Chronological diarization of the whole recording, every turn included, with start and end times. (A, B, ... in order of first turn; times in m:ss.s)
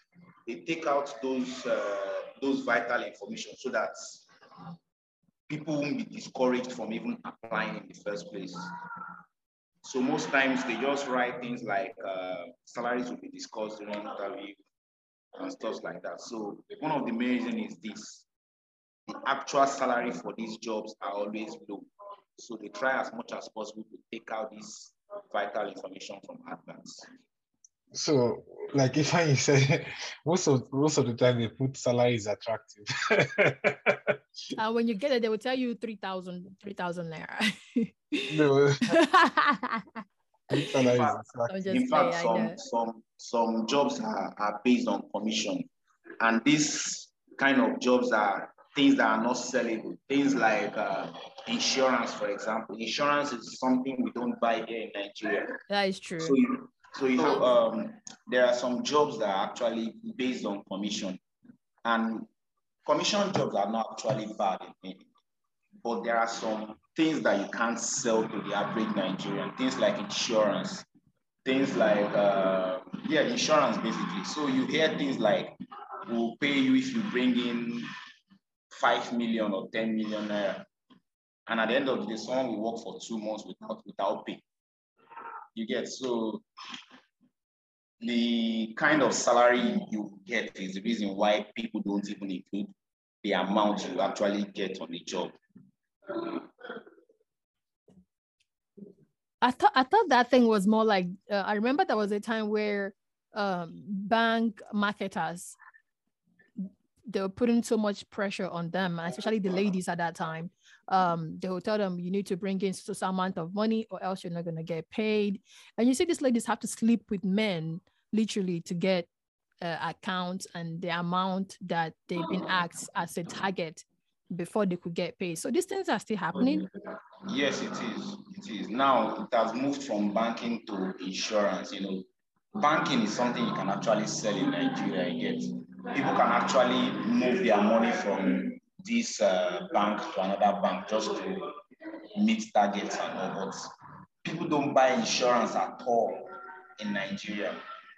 0:00.5-0:04.3 A
0:05.5-0:08.7 A
0:09.8-0:14.6 A
0:15.3-0:18.2 A
0:19.1-0:27.1 A
0:27.9-0:34.2 B
0:34.6-0:38.3 C
0:38.3-0:38.9 B
0:38.9-0:40.0 C
0:40.5-0:41.5 B
0:40.7-0:45.7 A
0:41.5-0:42.6 C
0:46.2-0:55.6 A
0:55.7-0:56.4 C
0:56.2-1:01.2 A
1:01.8-1:02.3 A
1:02.8-1:05.1 A
1:05.8-1:10.8 A
1:11.4-1:15.6 A
1:16.1-1:17.9 A
1:18.7-1:20.7 A
1:21.5-1:24.4 A
1:25.6-1:26.4 A
1:28.0-1:32.7 A
1:33.2-1:35.4 A
1:36.1-1:36.4 A
1:39.4-1:45.6 C
1:46.6-1:59.1 C
1:59.6-2:06.6 C
2:07.3-2:21.5 A
2:22.2-2:23.7 A
2:24.2-2:27.6 A